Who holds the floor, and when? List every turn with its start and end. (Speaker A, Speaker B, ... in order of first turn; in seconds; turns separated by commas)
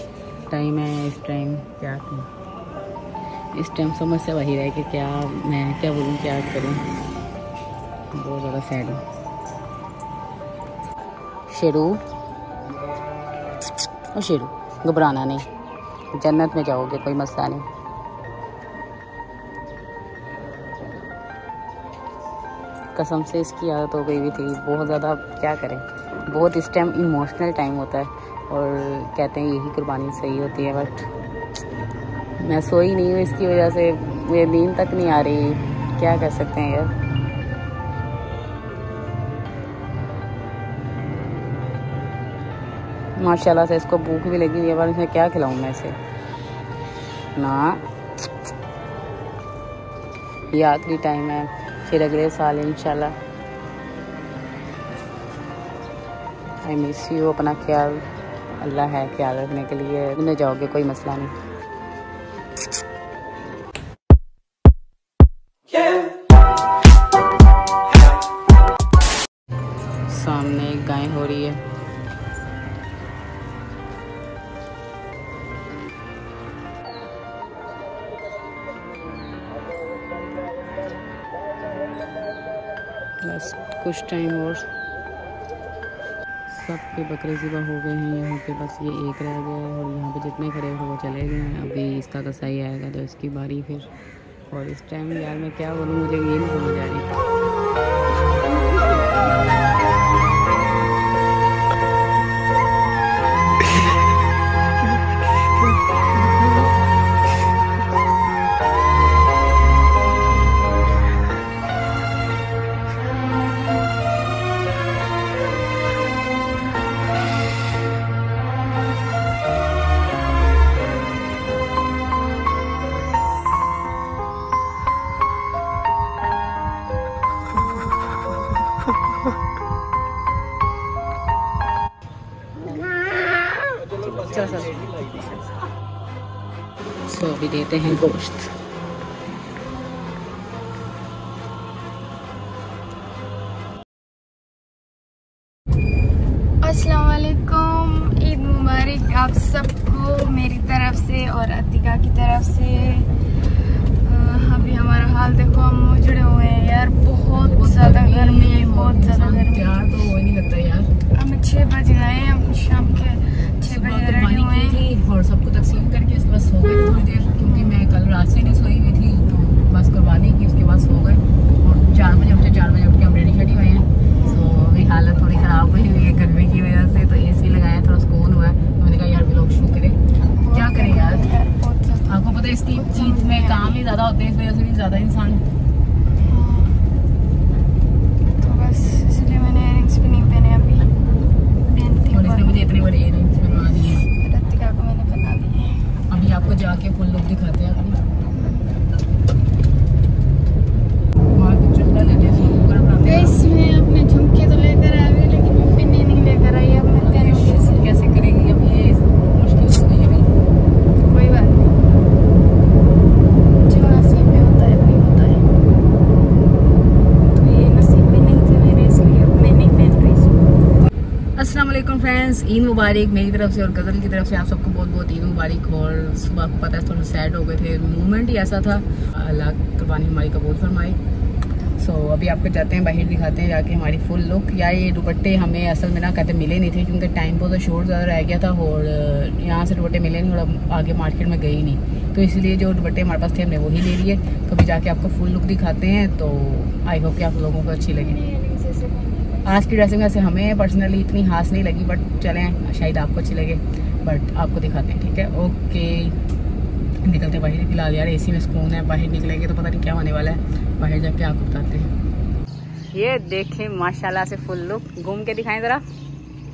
Speaker A: 0.5-2.3, Speaker A: 3.5-6.8, Speaker A: 8.1-9.0, Speaker A: 11.5-12.0, Speaker A: 14.1-15.4, Speaker A: 16.1-17.7, Speaker A: 22.9-31.1, Speaker A: 32.4-36.9, Speaker A: 43.2-46.0, Speaker A: 47.4-47.8, Speaker A: 50.5-53.2, Speaker A: 56.6-61.4, Speaker A: 70.1-71.6, Speaker A: 83.2-84.7, Speaker A: 86.5-93.9, Speaker A: 94.5-97.2, Speaker A: 134.1-135.2, Speaker A: 137.1-138.5, Speaker B: 146.6-153.1, Speaker B: 154.0-159.9, Speaker A: 157.3-160.9, Speaker B: 161.1-164.8, Speaker A: 163.7-180.0, Speaker B: 167.4-167.9, Speaker B: 174.2-174.4, Speaker B: 180.4-182.2, Speaker A: 180.5-181.3, Speaker A: 182.1-185.4, Speaker B: 182.7-183.8, Speaker B: 186.2-186.8, Speaker B: 188.4-190.9, Speaker B: 191.7-192.6, Speaker A: 192.1-194.1, Speaker B: 194.1-195.9, Speaker A: 196.1-198.0, Speaker B: 198.3-198.7, Speaker A: 201.4-203.4, Speaker B: 203.0-207.9, Speaker A: 207.0-210.3, Speaker B: 211.1-211.8, Speaker B: 213.6-215.5, Speaker B: 217.3-220.4, Speaker A: 221.4-231.0, Speaker A: 231.8-248.2, Speaker B: 248.0-249.6, Speaker A: 249.5-256.2, Speaker A: 257.0-261.9, Speaker A: 262.9-265.8